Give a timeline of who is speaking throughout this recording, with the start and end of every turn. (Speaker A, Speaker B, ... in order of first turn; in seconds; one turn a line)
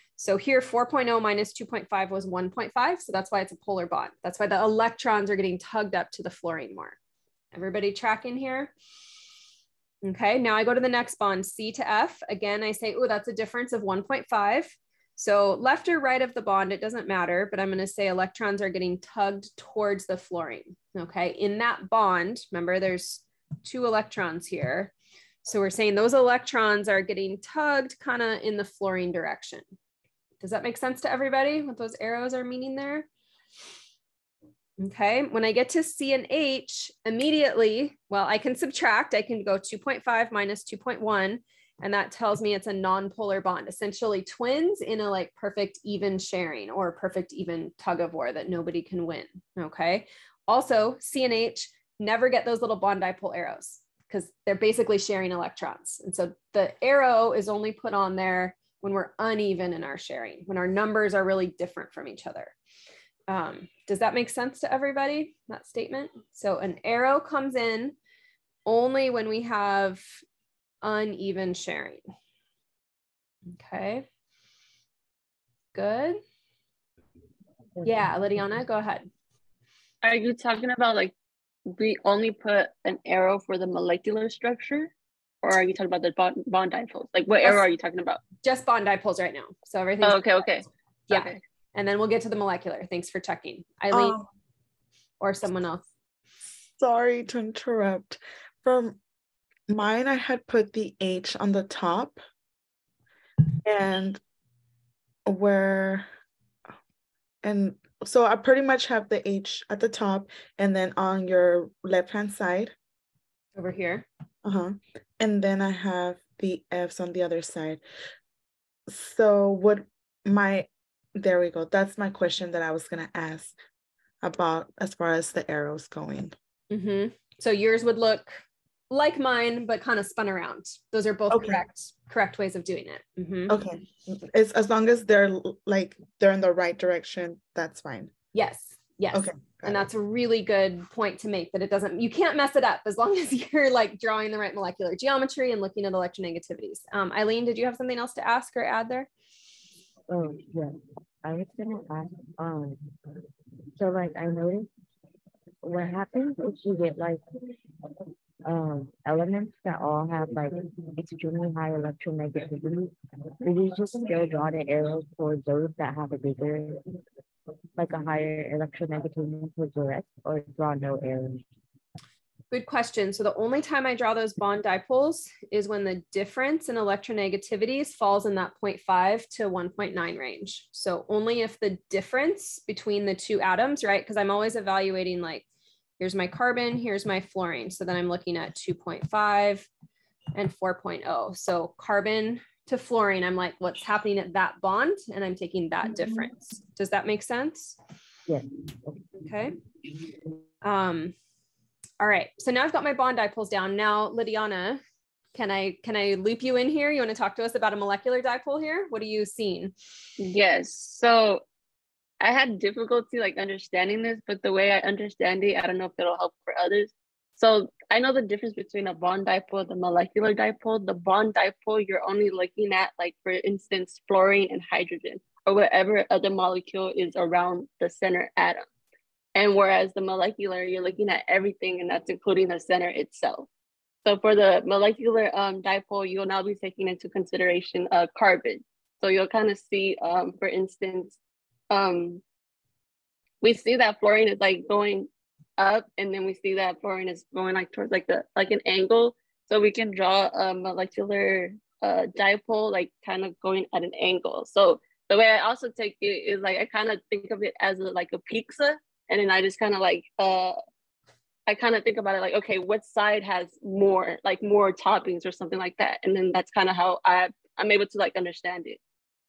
Speaker A: 0.2-7.0
Speaker A: 7.5-8.7
Speaker A: 10.0-24.9
Speaker A: 25.4-29.6
Speaker A: 30.4-33.1
Speaker A: 34.8-62.5
Speaker A: 63.3-67.9
Speaker A: 68.7-70.2
Speaker A: 70.8-72.0
Speaker A: 73.5-74.0
Speaker A: 75.7-76.2
Speaker A: 77.8-79.1
Speaker B: 80.0-81.1
Speaker B: 81.7-84.9
Speaker B: 85.4-88.2
Speaker A: 88.4-90.2
Speaker B: 90.0-91.4
Speaker A: 91.1-94.2
Speaker C: 93.9-94.2
Speaker A: 95.2-95.8
Speaker C: 96.8-99.0
Speaker C: 99.7-102.2
Speaker C: 103.6-104.2
Speaker C: 105.3-106.1
Speaker C: 107.4-112.7
Speaker A: 113.5-114.0
Speaker C: 114.4-117.8
Speaker C: 118.9-123.5
Speaker C: 124.2-126.3
Speaker A: 126.7-133.6
Speaker C: 131.3-131.6
Speaker C: 133.5-138.1
Speaker A: 138.3-149.1
Speaker C: 139.1-139.9
Speaker D: 150.1-152.8
Speaker D: 153.8-154.7
Speaker D: 155.6-157.2
Speaker D: 158.4-166.8
Speaker D: 167.8-171.4
Speaker A: 172.5-185.4
Speaker A: 186.0-189.7
Speaker A: 190.3-197.8
Speaker A: 199.2-199.6
Speaker A: 200.6-201.1
Speaker A: 202.0-204.8
Speaker A: 205.3-209.7
Speaker B: 210.2-211.4
Speaker B: 212.2-228.6
Speaker B: 229.3-233.5
Speaker B: 234.0-241.2
Speaker B: 241.7-242.2
Speaker B: 243.4-260.6
Speaker B: 261.5-268.8